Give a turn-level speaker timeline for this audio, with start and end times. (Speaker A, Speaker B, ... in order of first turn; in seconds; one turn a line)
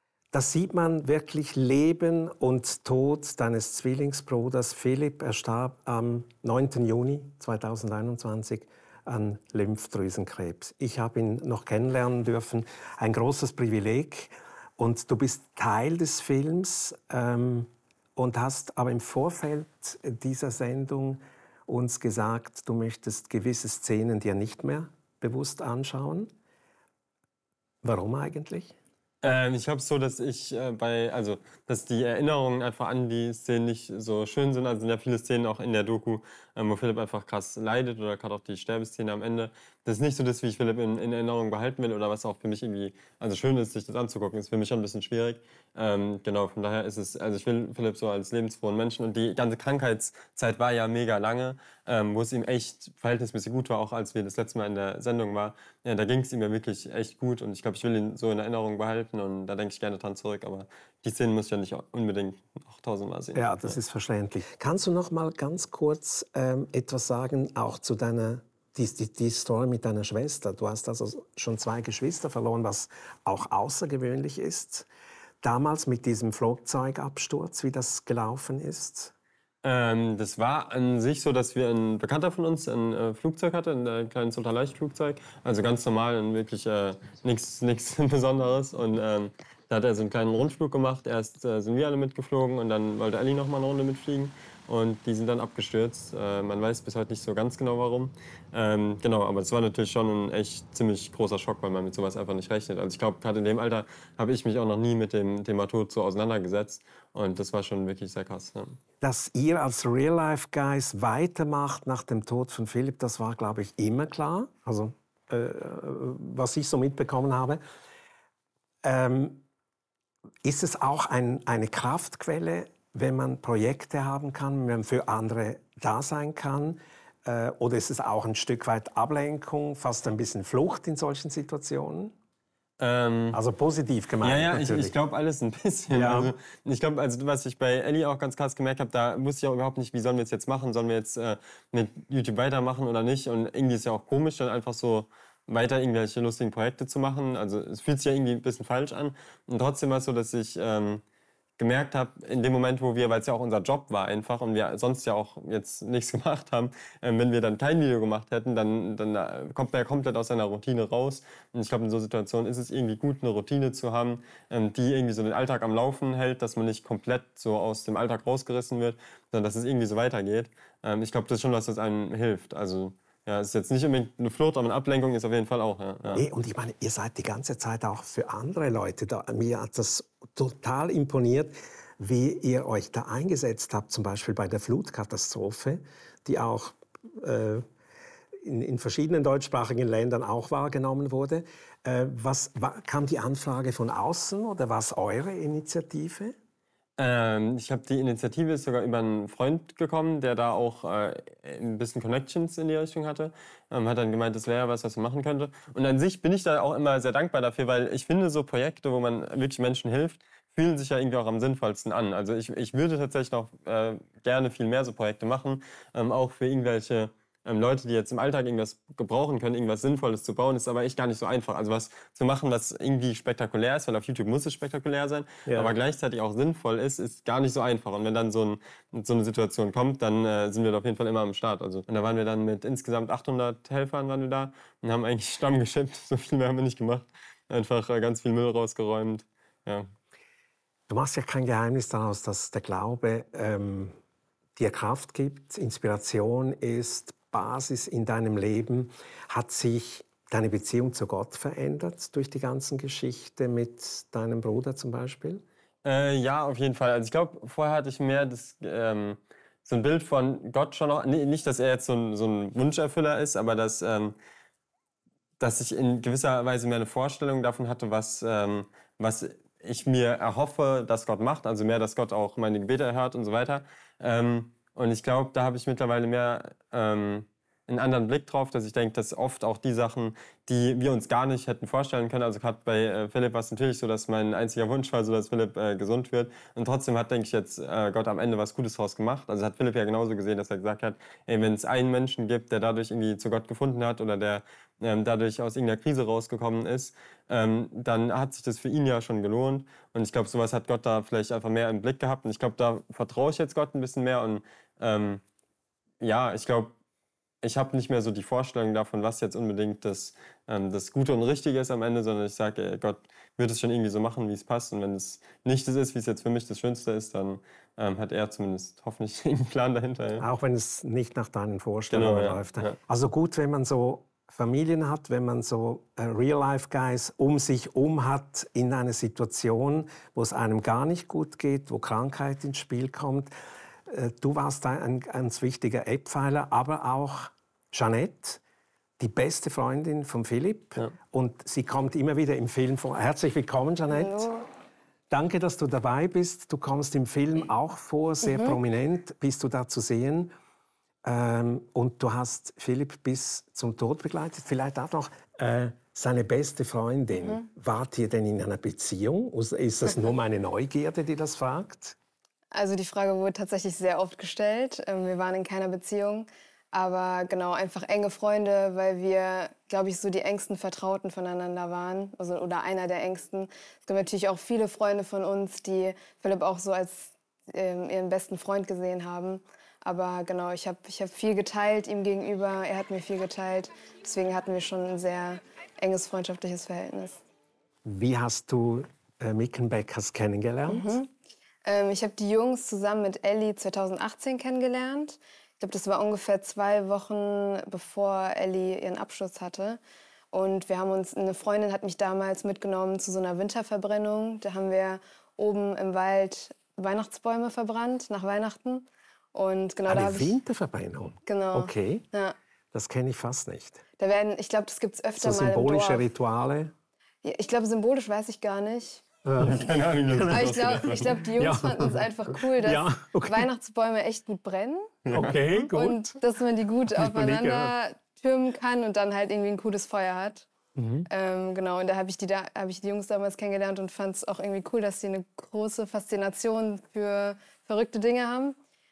Speaker A: 0.3-26.3
Speaker A: 27.8-28.8
Speaker B: 29.2-63.8
Speaker A: 63.3-74.9
Speaker A: 75.4-79.1
Speaker B: 79.6-108.8
Speaker A: 109.0-117.6
Speaker A: 118.8-119.5
Speaker A: 120.4-132.1
Speaker B: 132.8-133.4
Speaker A: 133.3-134.9
Speaker B: 134.2-151.0
Speaker A: 135.9-136.3
Speaker B: 151.6-176.2
Speaker A: 176.1-187.7
Speaker A: 188.4-196.3
Speaker B: 197.0-239.9
Speaker A: 225.5-225.8
Speaker A: 240.9-244.0
Speaker A: 244.6-255.4
Speaker B: 255.8-264.2
Speaker B: 265.4-305.2
Speaker B: 306.0-306.7
Speaker B: 307.4-320.2
Speaker A: 320.2-333.3
Speaker B: 321.9-322.7
Speaker A: 333.9-338.4
Speaker A: 339.0-344.3
Speaker C: 343.9-344.5
Speaker A: 345.1-350.3
Speaker C: 348.2-348.6
Speaker A: 351.1-362.0
Speaker C: 357.2-357.4
Speaker C: 362.5-387.2
Speaker A: 387.9-391.0
Speaker C: 390.7-391.1
Speaker C: 391.7-399.8
Speaker C: 400.3-410.4
Speaker A: 409.9-412.1
Speaker C: 411.3-412.4
Speaker A: 412.7-413.8
Speaker C: 414.0-416.1
Speaker A: 415.2-416.7
Speaker C: 417.2-419.1
Speaker A: 419.2-423.5
Speaker B: 419.4-421.0
Speaker C: 420.3-425.0
Speaker B: 425.1-425.4
Speaker A: 425.1-426.2
Speaker C: 425.6-430.5
Speaker A: 427.0-427.7
Speaker A: 430.8-431.1
Speaker C: 431.1-438.6